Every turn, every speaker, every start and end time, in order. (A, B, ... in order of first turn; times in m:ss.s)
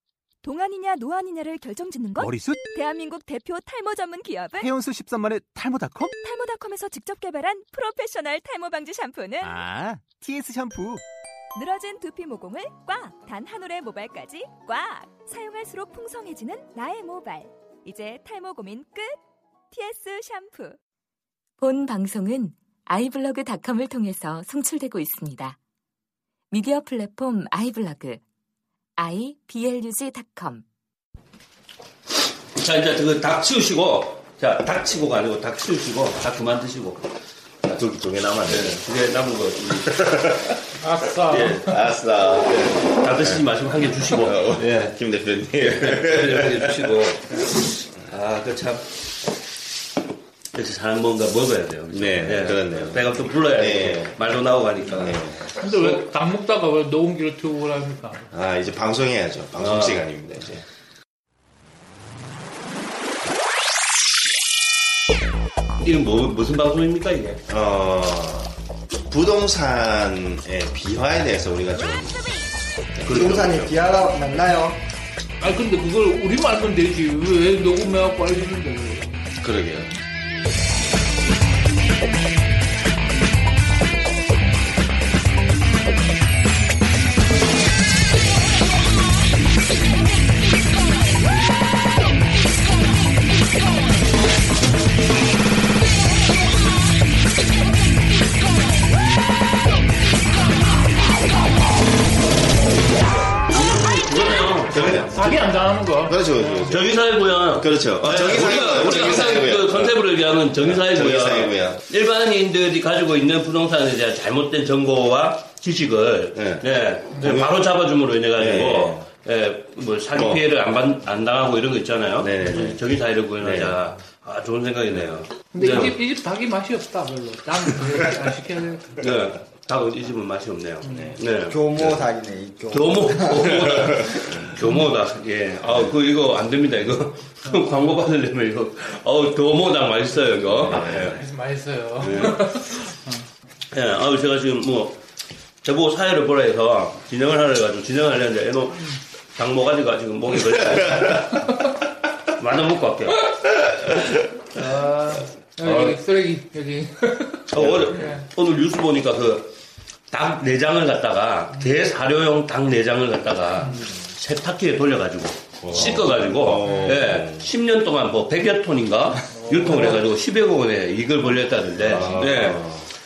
0:00.4-0:04.7 A
0:02.2-0:02.6 B
0:04.6-0:06.1 B
0:06.2-0:09.6 A
0:09.4-0:11.0 B
0:11.5-0:19.2 A
0:19.7-0:20.8 A
0:21.6-0:25.6 C
0:26.5-0:28.2 C
0:29.0-0:30.6 C
0:32.6-0:37.0 D
0:37.7-0:38.8 E
0:38.5-0:40.2 D
0:39.9-0:40.6 E
0:40.8-0:41.8 F
0:41.3-0:41.8 D
0:41.6-0:43.4 E
0:42.6-0:45.0 D
0:44.1-0:47.1 E
0:45.6-0:48.8 D
0:50.5-0:55.2 D
0:51.9-0:54.2 E
0:54.9-0:56.0 E
0:55.6-0:58.3 F
0:58.3-1:00.6 E
0:59.6-1:00.0 D
1:05.8-1:07.4 D
1:07.5-1:08.5 E
1:09.1-1:12.3 E
1:13.0-1:13.9 E
1:13.0-1:14.8 G
1:15.4-1:19.1 F
1:19.4-1:19.9 E
1:43.5-1:45.3 D
1:44.7-1:45.3 E
1:44.9-1:46.6 F
1:46.0-1:47.0 E
1:46.6-2:05.9 D
1:47.5-1:50.0 E
1:48.2-1:49.4 F
1:50.6-1:51.8 E
1:56.3-1:56.6 E
1:57.2-1:57.6 E
1:58.4-1:59.0 E
2:00.1-2:00.4 E
2:02.2-2:02.8 E
2:03.4-2:03.8 E
2:04.9-2:05.9 E
2:05.5-2:09.0 F
2:09.0-2:11.6 D
2:10.8-2:11.2 E
2:11.5-2:13.6 G
2:12.7-2:21.2 D
2:13.5-2:14.4 E
2:20.5-2:21.2 E
2:20.9-2:23.2 F
2:22.0-2:22.4 D
2:23.7-2:25.0 D
2:25.6-2:31.5 D
2:30.8-2:31.4 E
2:32.3-2:33.3 D
2:34.6-2:38.2 F
2:35.6-2:36.0 D
2:37.5-2:39.5 D
2:37.5-2:38.0 E
2:40.1-2:52.7 D
2:45.6-2:47.5 E
2:46.6-2:47.0 F
2:49.3-2:50.0 F
2:51.8-2:52.9 E